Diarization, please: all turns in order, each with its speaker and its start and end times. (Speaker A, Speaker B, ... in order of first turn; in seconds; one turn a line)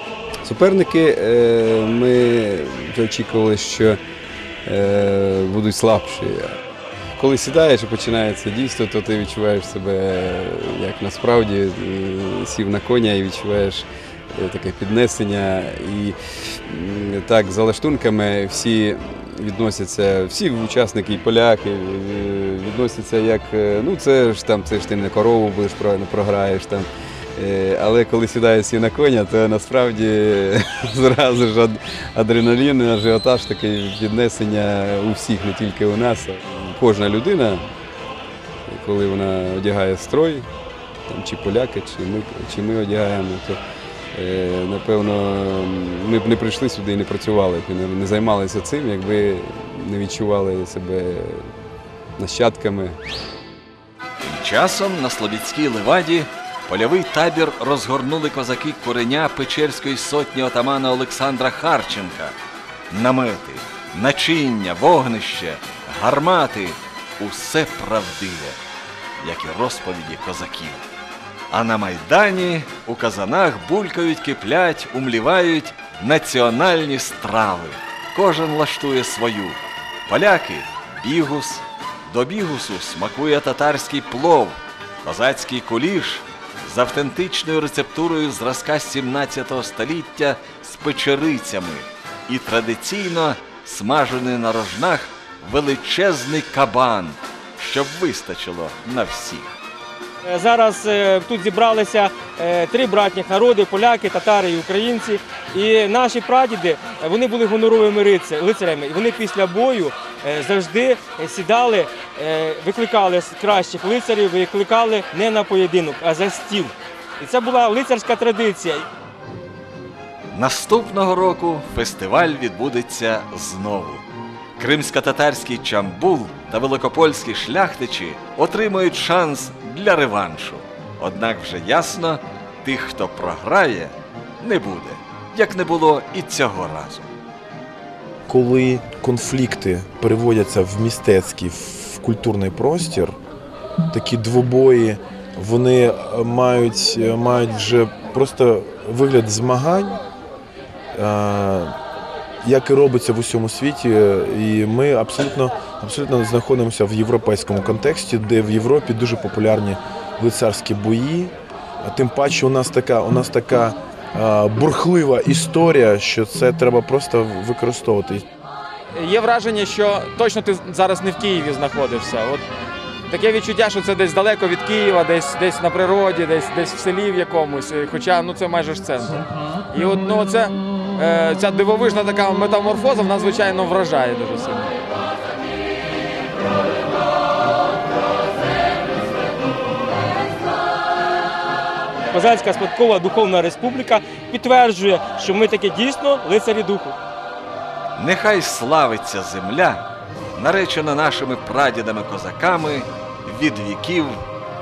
Speaker A: 0.4-4.0
Speaker A: 4.7-6.6
Speaker A: 7.2-16.2
Speaker A: 16.7-37.6
Speaker A: 38.7-40.5
Speaker A: 41.1-43.6
Speaker A: 44.1-51.5
Speaker A: 52.2-53.0
Speaker B: 54.2-62.4
Speaker B: 62.9-68.6
Speaker B: 69.2-70.8
Speaker B: 71.5-99.5
Speaker C: 100.2-118.8
Speaker B: 120.3-124.0
Speaker B: 124.6-137.1
Speaker D: 138.3-143.1
Speaker D: 143.9-150.0
Speaker D: 150.9-151.7
Speaker D: 152.4-168.2
Speaker E: 168.9-172.4
Speaker E: 173.1-179.1
Speaker E: 179.7-184.7
Speaker C: 192.1-197.0
Speaker B: 197.9-204.2